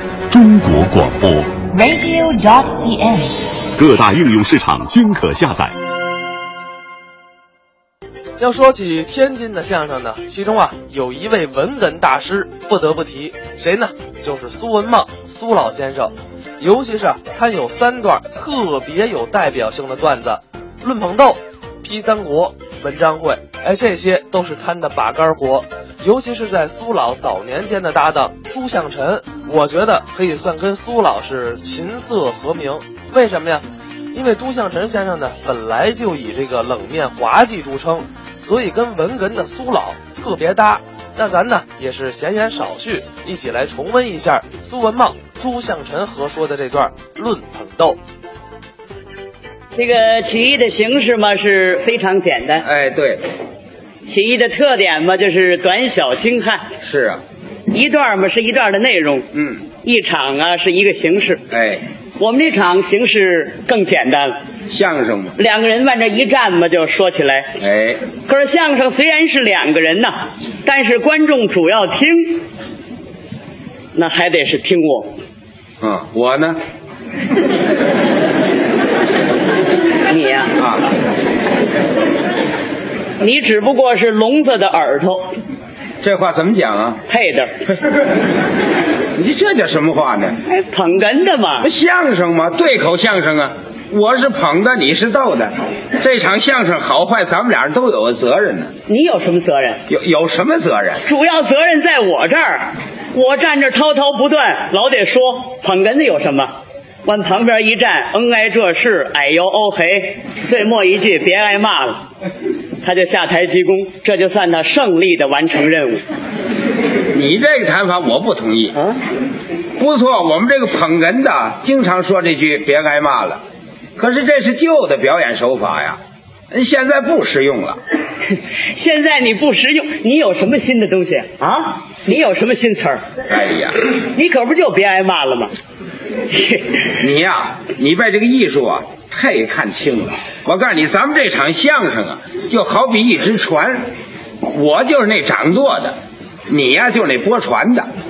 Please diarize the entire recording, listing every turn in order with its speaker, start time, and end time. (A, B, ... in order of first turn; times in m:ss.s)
0:00.3-0:01.7 A
0:01.7-0:03.6 B
0:03.7-0:05.8 A
0:08.4-0:48.0 C
0:49.8-0:52.7 D
0:52.6-0:53.2 E
0:54.1-0:56.7 D
0:56.8-0:57.2 E
0:57.7-0:59.3 D
0:59.3-0:59.6 E
0:59.8-1:01.4 D
1:01.5-1:01.8 E
1:02.2-1:04.4 D
1:04.7-1:05.4 E
1:05.4-1:07.5 D
1:07.6-1:08.0 E
1:08.3-1:12.5 D
1:14.0-1:15.1 D
1:15.8-1:16.6 E
1:20.1-1:20.6 D
1:20.6-1:20.9 E
1:23.2-1:25.4 D
1:26.0-1:27.0 E
1:27.1-1:27.6 D
1:29.2-1:30.4 E
1:30.5-1:31.7 D
1:31.6-1:38.7 E
1:38.9-1:39.8 D
1:39.9-1:41.0 E
1:41.0-1:46.5 D
1:47.0-1:52.1 D
1:52.8-1:56.0 D
1:57.1-1:58.8 E
1:58.8-1:59.0 D
1:59.8-2:03.4 E
2:04.0-2:06.0 E
2:06.5-2:07.8 E
2:08.3-2:13.1 D
2:13.3-2:13.8 E
2:14.1-2:15.6 D
2:16.3-2:16.9 D
2:17.0-2:23.9 E
2:24.4-2:26.0 E
2:26.5-2:27.9 E